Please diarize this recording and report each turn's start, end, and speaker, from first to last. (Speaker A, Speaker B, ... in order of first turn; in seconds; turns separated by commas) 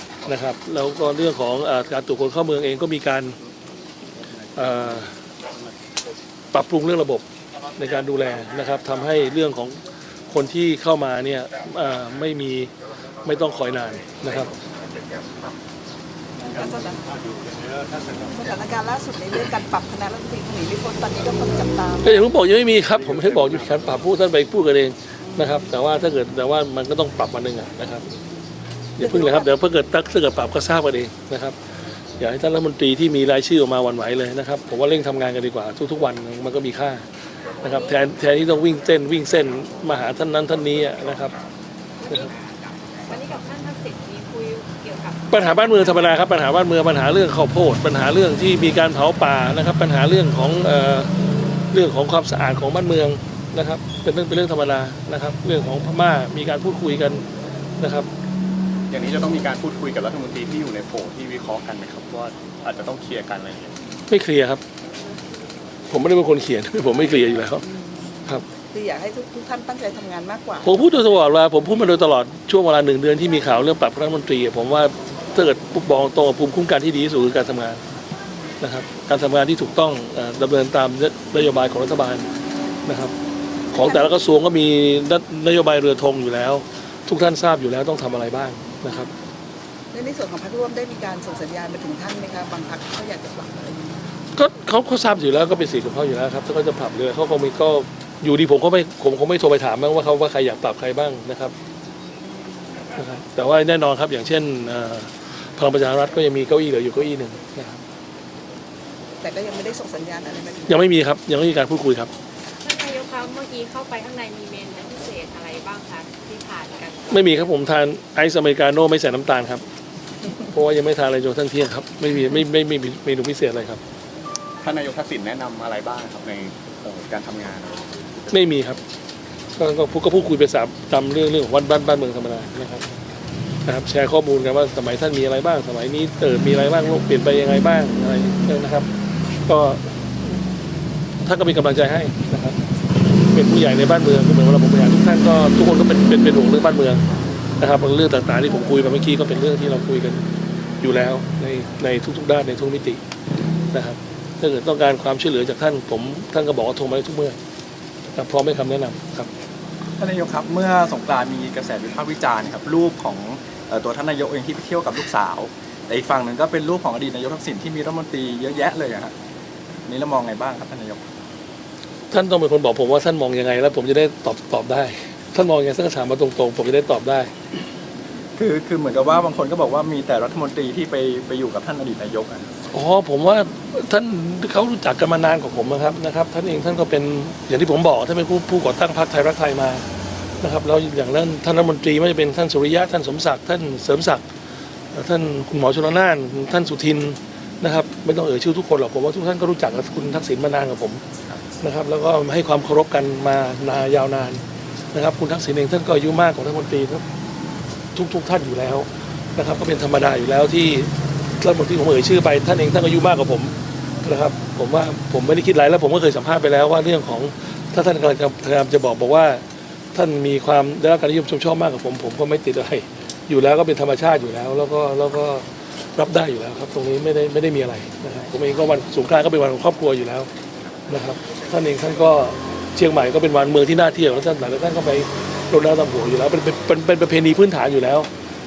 Speaker A: 0.3-3.4, Speaker A: 4.5-5.2, Speaker A: 6.5-7.2, Speaker A: 7.8-12.7, Speaker A: 13.2-14.5, Speaker B: 16.4-17.0, Speaker B: 18.1-22.2, Speaker A: 22.0-28.1, Speaker B: 25.2-25.6, Speaker A: 29.0-31.6, Speaker B: 29.0-29.5, Speaker A: 32.2-37.0, Speaker A: 37.6-41.4, Speaker C: 37.6-38.0, Speaker C: 42.0-42.3, Speaker C: 43.0-46.1, Speaker A: 45.3-51.1, Speaker A: 51.7-57.3, Speaker A: 57.8-58.1, Speaker D: 58.9-63.8, Speaker A: 64.1-64.6, Speaker A: 65.9-67.7, Speaker B: 67.6-70.8, Speaker A: 70.6-77.8, Speaker A: 78.6-82.3, Speaker A: 82.9-83.1, Speaker A: 83.7-89.1, Speaker B: 83.8-84.1, Speaker B: 89.9-94.0, Speaker A: 94.3-101.5, Speaker B: 102.1-102.6, Speaker A: 102.9-107.8, Speaker B: 109.2-110.9, Speaker A: 110.7-112.1, Speaker C: 112.6-117.1, Speaker A: 117.1-119.6, Speaker A: 120.5-123.8, Speaker D: 124.6-128.5, Speaker A: 128.3-128.8, Speaker A: 129.6-132.8, Speaker A: 133.7-138.9, Speaker A: 139.5-139.9, Speaker A: 141.2-142.6, Speaker A: 143.3-147.0, Speaker A: 147.6-150.3, Speaker A: 150.8-153.0, Speaker A: 153.7-157.4, Speaker A: 158.2-159.3, Speaker E: 160.0-169.1, Speaker E: 169.9-171.0, Speaker A: 172.1-177.3, Speaker E: 178.4-182.5, Speaker A: 182.7-189.9, Speaker A: 190.4-194.2, Speaker A: 194.9-201.0, Speaker A: 201.6-207.1, Speaker A: 207.9-230.3, Speaker A: 230.9-238.1